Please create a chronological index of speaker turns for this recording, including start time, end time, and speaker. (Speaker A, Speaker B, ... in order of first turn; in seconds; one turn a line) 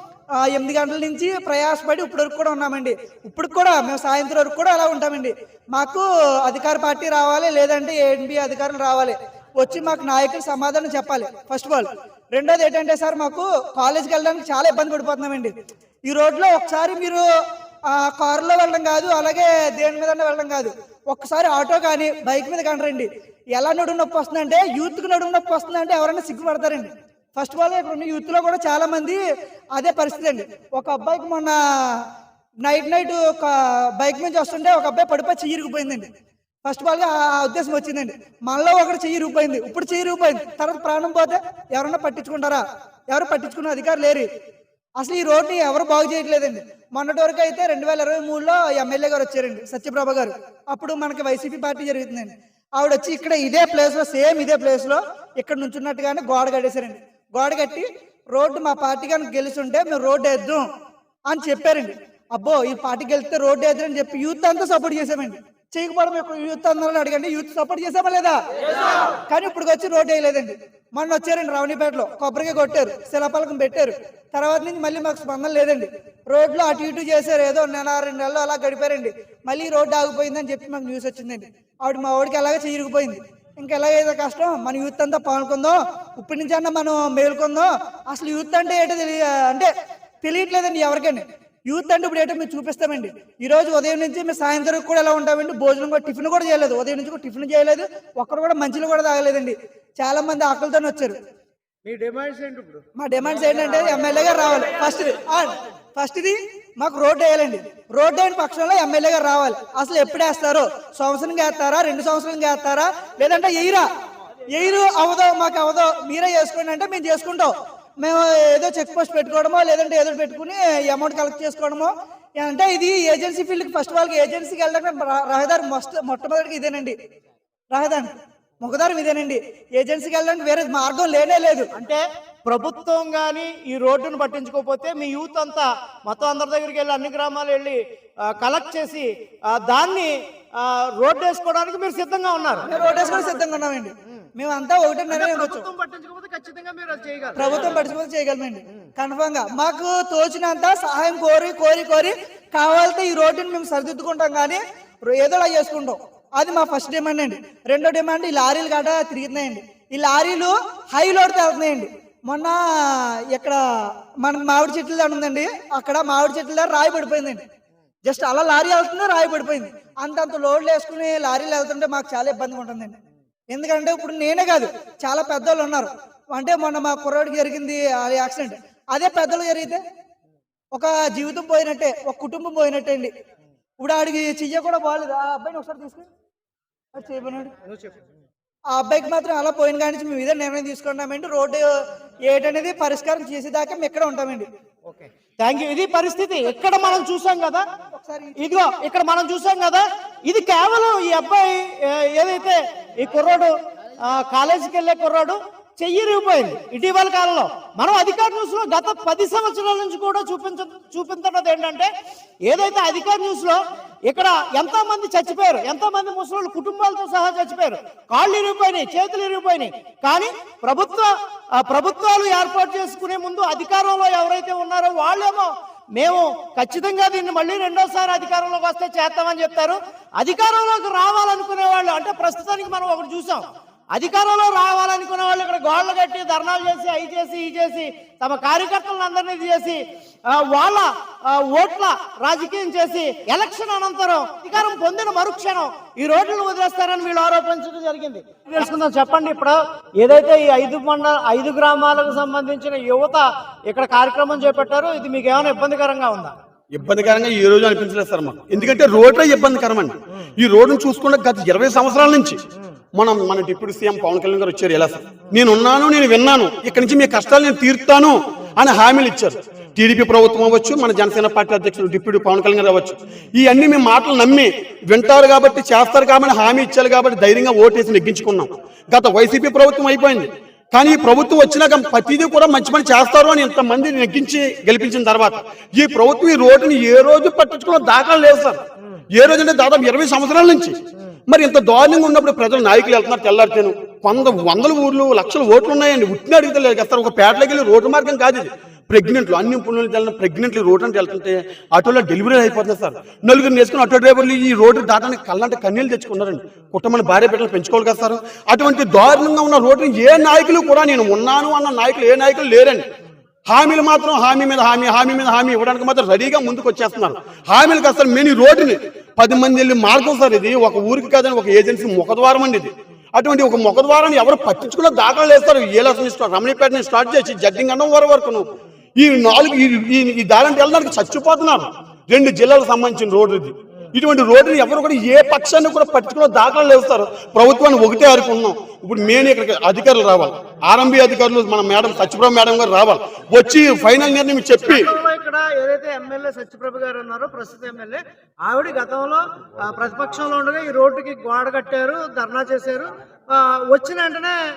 Speaker A: 0.4-15.5
Speaker A: 16.1-17.2
Speaker A: 17.9-29.2
Speaker A: 29.7-32.0
Speaker A: 32.6-36.1
Speaker A: 36.6-44.3
Speaker A: 45.0-60.7
Speaker A: 61.3-68.4
Speaker A: 69.3-89.7
Speaker A: 90.2-101.2
Speaker B: 101.9-102.8
Speaker A: 103.0-113.9
Speaker A: 114.5-127.0
Speaker A: 127.7-131.7
Speaker B: 131.7-142.8
Speaker A: 142.7-145.7
Speaker B: 145.1-147.7
Speaker A: 147.4-162.6
Speaker A: 163.3-163.6
Speaker A: 164.2-167.4
Speaker A: 168.0-173.0
Speaker A: 173.5-179.8
Speaker A: 180.7-183.1
Speaker A: 183.8-186.1
Speaker A: 186.9-187.5
Speaker B: 187.7-188.0
Speaker A: 188.7-191.7
Speaker A: 192.3-194.5
Speaker B: 194.9-197.7
Speaker A: 197.9-198.3
Speaker B: 198.4-211.9
Speaker B: 212.5-256.3
Speaker C: 256.7-262.4
Speaker C: 262.9-288.6
Speaker C: 289.1-290.8
Speaker C: 291.3-312.9
Speaker C: 313.5-328.4
Speaker C: 329.0-344.9
Speaker B: 344.6-354.4